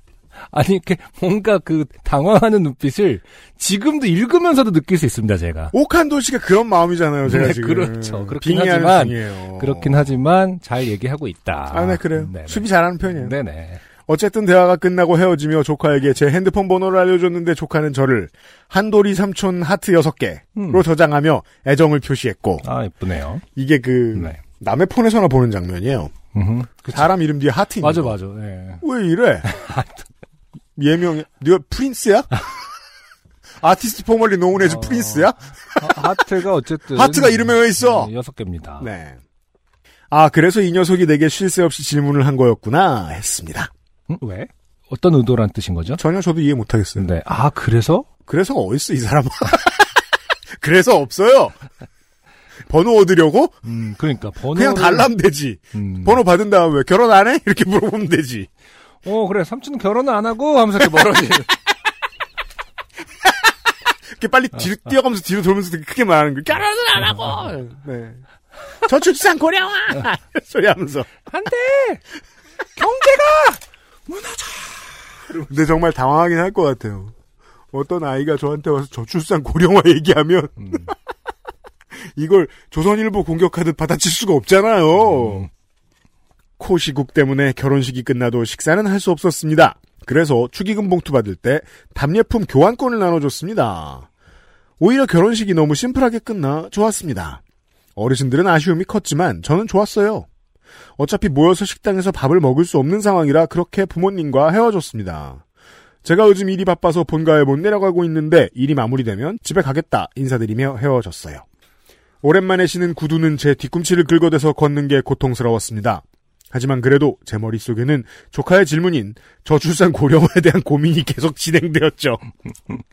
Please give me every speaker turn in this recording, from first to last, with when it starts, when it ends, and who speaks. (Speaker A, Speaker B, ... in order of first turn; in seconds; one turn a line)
Speaker A: 0.5-5.7
Speaker B: 5.7-10.1
Speaker A: 7.2-13.8
Speaker B: 11.7-13.4
Speaker B: 14.1-22.7
Speaker A: 20.6-20.8
Speaker A: 22.6-23.4
Speaker B: 23.6-26.1
Speaker A: 24.1-24.4
Speaker A: 26.3-27.1
Speaker B: 26.9-28.2
Speaker A: 27.8-28.8
Speaker B: 28.8-29.5
Speaker A: 29.4-30.1
Speaker B: 30.8-32.3
Speaker B: 33.6-36.1
Speaker A: 34.6-38.9
Speaker B: 36.9-38.1
Speaker B: 38.8-39.2
Speaker B: 40.1-43.7
Speaker A: 44.1-46.0
Speaker B: 46.0-47.1
Speaker A: 47.0-48.1
Speaker B: 48.3-49.9
Speaker B: 50.6-51.5
Speaker B: 52.7-53.6
Speaker A: 53.6-55.1
Speaker B: 54.5-58.5
Speaker A: 55.7-56.2
Speaker A: 59.0-61.5
Speaker B: 64.2-68.2
Speaker B: 68.8-71.2
Speaker A: 71.3-72.0
Speaker A: 72.8-75.5
Speaker B: 75.4-77.1
Speaker B: 77.7-81.0
Speaker B: 82.0-85.5
Speaker A: 85.1-85.5
Speaker B: 86.6-94.1
Speaker B: 94.8-97.4
Speaker B: 98.0-100.3
Speaker B: 101.0-105.4
Speaker B: 106.0-111.4
Speaker B: 112.2-122.2